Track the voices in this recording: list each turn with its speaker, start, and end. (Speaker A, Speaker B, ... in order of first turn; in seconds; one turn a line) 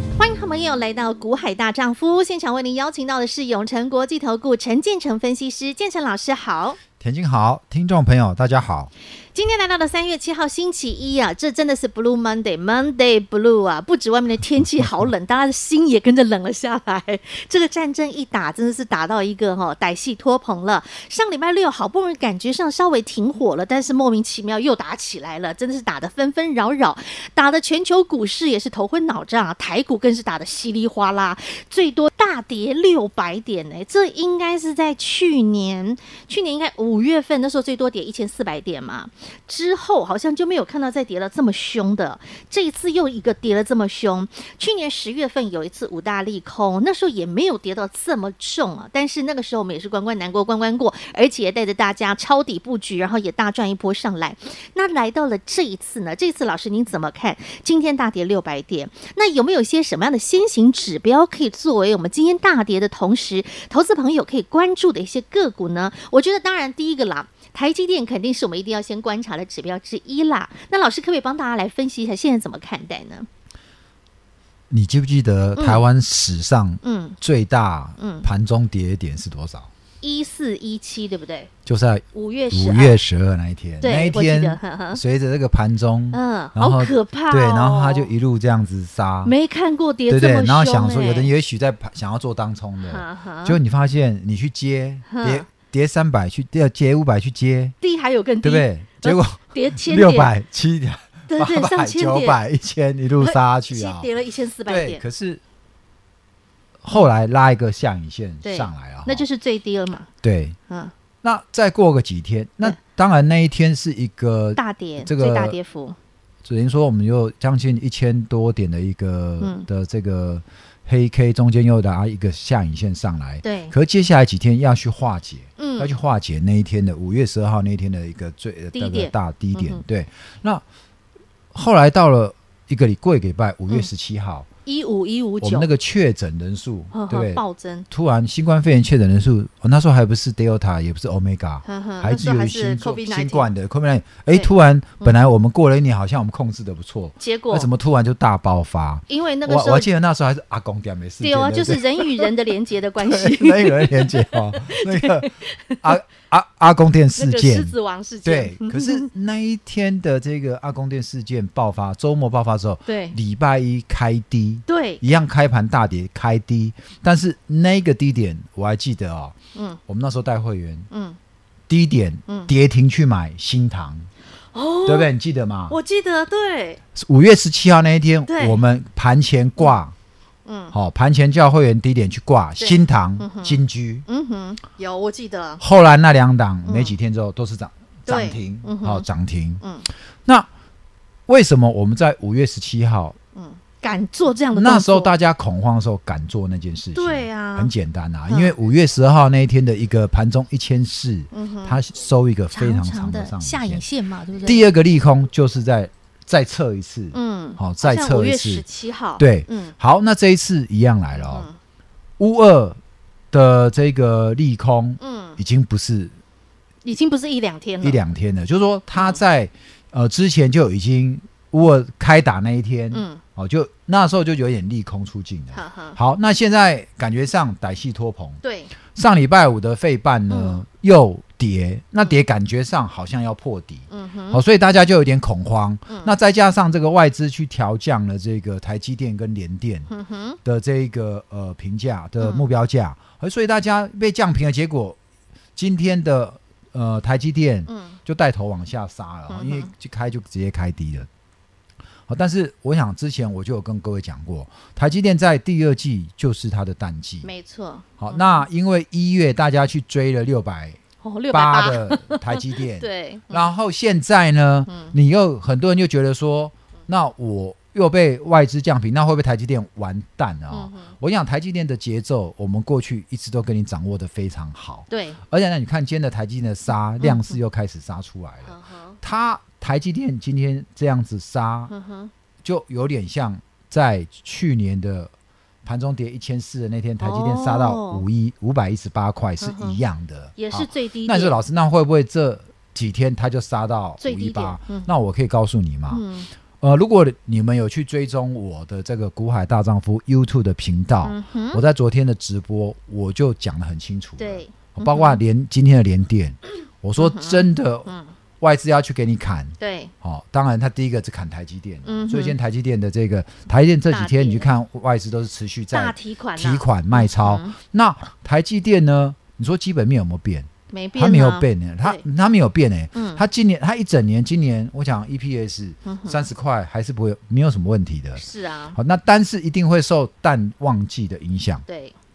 Speaker A: 0.2-6.8
Speaker B: 7.0-8.9
Speaker A: 9.3-73.3
Speaker B: 74.7-79.7
Speaker A: 75.6-75.8
Speaker A: 76.8-77.2
Speaker A: 78.0-78.3
Speaker A: 80.0-81.5
Speaker B: 81.7-89.3
Speaker A: 82.1-83.0
Speaker A: 83.8-85.0
Speaker A: 86.1-88.1
Speaker A: 89.2-91.3
Speaker B: 90.1-97.7
Speaker A: 92.8-93.6
Speaker A: 95.1-95.5
Speaker A: 97.8-100.3
Speaker B: 98.4-104.1
Speaker A: 101.3-102.4
Speaker A: 103.2-105.0
Speaker B: 104.7-105.4
Speaker B: 106.8-109.3
Speaker A: 108.4-110.1
Speaker B: 110.2-110.6
Speaker B: 111.2-115.6
Speaker A: 114.6-116.0
Speaker B: 116.5-130.6
Speaker A: 119.4-119.7
Speaker A: 123.4-123.7
Speaker A: 125.6-126.0
Speaker A: 128.7-129.8
Speaker B: 131.5-134.5
Speaker A: 134.7-135.7
Speaker B: 135.4-152.3
Speaker A: 136.9-137.9
Speaker A: 141.7-143.5
Speaker A: 144.3-145.2
Speaker A: 147.2-147.7
Speaker A: 149.1-149.9
Speaker A: 151.2-156.0
Speaker B: 153.0-169.3
Speaker A: 157.2-159.1
Speaker A: 162.9-163.2
Speaker A: 164.7-165.0
Speaker B: 169.9-170.9
Speaker A: 170.9-171.2
Speaker B: 171.7-174.1
Speaker A: 172.3-172.5
Speaker A: 174.5-175.1
Speaker B: 174.8-175.8
Speaker A: 175.7-176.8
Speaker B: 176.9-179.9
Speaker A: 178.3-178.6
Speaker A: 180.5-180.7
Speaker B: 180.7-184.1
Speaker A: 182.6-185.6
Speaker B: 185.6-189.6
Speaker A: 186.7-186.9
Speaker A: 188.1-189.1
Speaker A: 189.6-189.9
Speaker B: 191.3-193.2
Speaker A: 193.4-195.1
Speaker B: 194.6-203.8
Speaker A: 196.9-197.7
Speaker A: 198.3-198.6
Speaker A: 201.3-201.8
Speaker A: 202.5-204.7
Speaker B: 204.4-208.7
Speaker A: 207.1-209.7
Speaker B: 209.2-211.5
Speaker A: 211.2-211.6
Speaker B: 212.2-212.8
Speaker B: 213.3-216.1
Speaker A: 215.0-215.4
Speaker A: 216.8-218.0
Speaker B: 217.8-239.9
Speaker A: 218.9-219.2
Speaker A: 222.9-223.2
Speaker A: 225.5-226.0
Speaker A: 228.4-228.7
Speaker A: 230.3-230.6
Speaker A: 233.9-234.4
Speaker A: 235.9-236.2
Speaker A: 239.9-240.4
Speaker B: 240.4-245.0
Speaker A: 242.2-242.4
Speaker B: 245.6-251.1
Speaker A: 247.7-248.0
Speaker A: 249.3-249.7
Speaker B: 252.1-257.3
Speaker A: 257.2-258.4
Speaker B: 258.0-260.8
Speaker A: 261.0-263.5
Speaker B: 261.3-281.7
Speaker A: 264.7-264.9
Speaker A: 270.5-270.9
Speaker A: 274.9-275.2
Speaker A: 277.0-277.4
Speaker A: 278.5-279.0
Speaker A: 281.7-282.1
Speaker B: 282.4-285.1
Speaker B: 285.6-296.0
Speaker A: 287.0-288.0
Speaker A: 289.4-289.8
Speaker A: 290.4-291.4
Speaker A: 294.0-294.9
Speaker A: 295.9-296.3
Speaker B: 296.6-328.2
Speaker A: 301.0-301.6
Speaker A: 304.2-305.2
Speaker A: 307.0-308.1
Speaker A: 309.6-309.9
Speaker A: 311.9-312.4
Speaker A: 313.9-314.5
Speaker A: 315.7-317.6
Speaker A: 320.7-322.0
Speaker A: 322.9-323.2
Speaker A: 325.9-326.2
Speaker A: 328.2-328.8
Speaker B: 328.8-331.6
Speaker A: 331.7-331.9